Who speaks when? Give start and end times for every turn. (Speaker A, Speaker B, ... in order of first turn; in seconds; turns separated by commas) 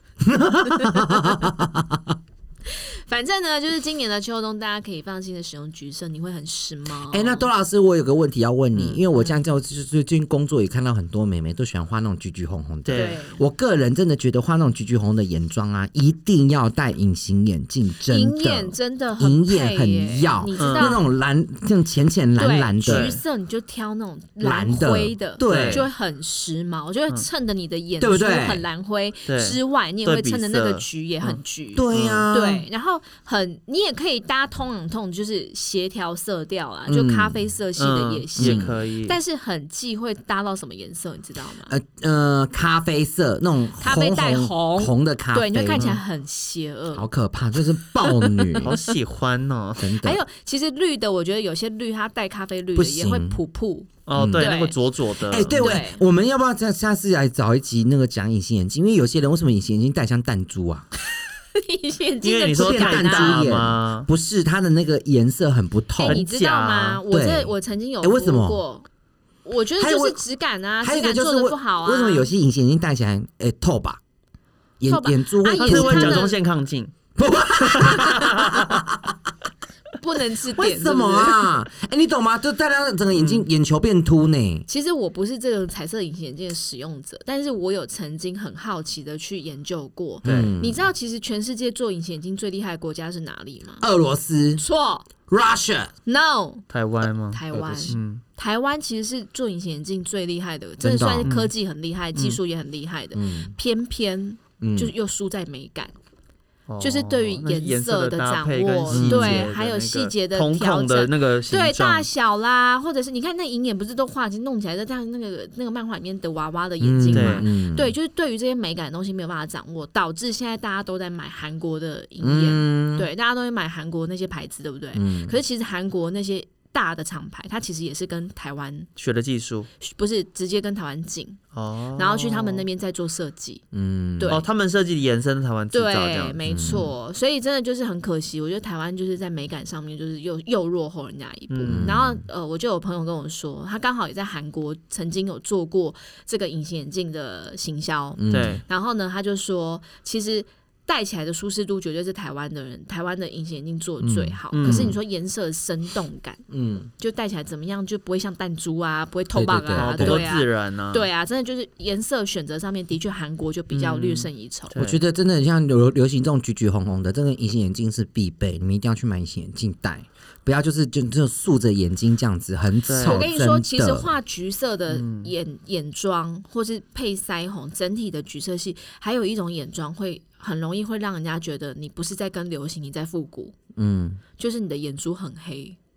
Speaker A: 0.2-2.2, Speaker B: 2.7-7.5, Speaker A: 7.1-23.1, Speaker C: 8.8-9.0, Speaker C: 12.8-13.2, Speaker B: 12.9-13.4, Speaker B: 18.1-21.0, Speaker C: 20.6-21.0, Speaker B: 22.4-41.7, Speaker C: 22.9-23.2, Speaker A: 24.4-25.9, Speaker C: 25.4-25.9, Speaker A: 28.0-28.6, Speaker C: 29.3-31.4, Speaker A: 31.7-32.7, Speaker C: 31.9-32.3, Speaker A: 36.9-37.5, Speaker C: 37.8-39.2, Speaker A: 38.4-38.7, Speaker A: 41.7-46.0, Speaker B: 43.8-47.1, Speaker A: 46.9-48.8, Speaker B: 48.0-48.8, Speaker C: 48.6-49.9, Speaker A: 49.8-50.2, Speaker B: 50.0-54.8, Speaker A: 52.8-53.4, Speaker C: 54.1-55.8, Speaker A: 54.2-54.5, Speaker A: 55.3-60.9, Speaker B: 55.5-56.0, Speaker B: 61.5-63.5, Speaker C: 62.2-64.1, Speaker A: 62.6-66.2, Speaker B: 66.0-68.9, Speaker C: 66.0-67.0, Speaker A: 67.1-68.6, Speaker B: 69.4-72.3, Speaker A: 69.8-70.2, Speaker A: 70.8-74.0, Speaker A: 74.8-76.3, Speaker B: 74.9-76.4, Speaker C: 75.6-76.9, Speaker A: 77.2-79.2, Speaker C: 77.6-78.8, Speaker B: 80.0-81.5, Speaker A: 80.5-84.7, Speaker C: 83.2-83.5, Speaker B: 84.7-93.8, Speaker C: 90.2-90.5, Speaker A: 90.2-90.9, Speaker A: 93.8-94.6, Speaker B: 94.6-95.1, Speaker A: 95.3-95.9, Speaker B: 96.1-96.6, Speaker C: 96.7-98.2, Speaker B: 97.3-105.9, Speaker A: 97.5-98.0, Speaker A: 100.8-101.3, Speaker C: 101.2-101.5, Speaker A: 103.2-103.5, Speaker A: 104.6-104.9, Speaker C: 106.7-112.1, Speaker B: 106.8-128.9, Speaker A: 108.9-109.5, Speaker A: 116.8-117.9, Speaker C: 117.1-117.5, Speaker A: 122.2-123.1, Speaker A: 125.0-125.3, Speaker C: 129.0-129.7, Speaker B: 129.8-131.4, Speaker C: 131.5-132.7, Speaker B: 132.0-133.6, Speaker A: 133.7-134.4, Speaker B: 134.2-134.5, Speaker C: 134.3-136.8, Speaker B: 135.7-156.4, Speaker A: 136.4-136.9, Speaker C: 141.5-141.9, Speaker A: 141.7-142.2, Speaker A: 148.2-148.6, Speaker C: 148.3-148.6, Speaker A: 154.0-155.0, Speaker C: 154.5-154.9, Speaker A: 156.5-156.9, Speaker B: 157.0-164.8, Speaker A: 159.3-160.3, Speaker C: 159.8-161.1, Speaker C: 163.7-165.0, Speaker A: 164.8-174.1, Speaker C: 172.9-173.3, Speaker B: 173.0-183.6, Speaker C: 174.9-175.3, Speaker A: 183.8-184.2, Speaker B: 184.4-185.8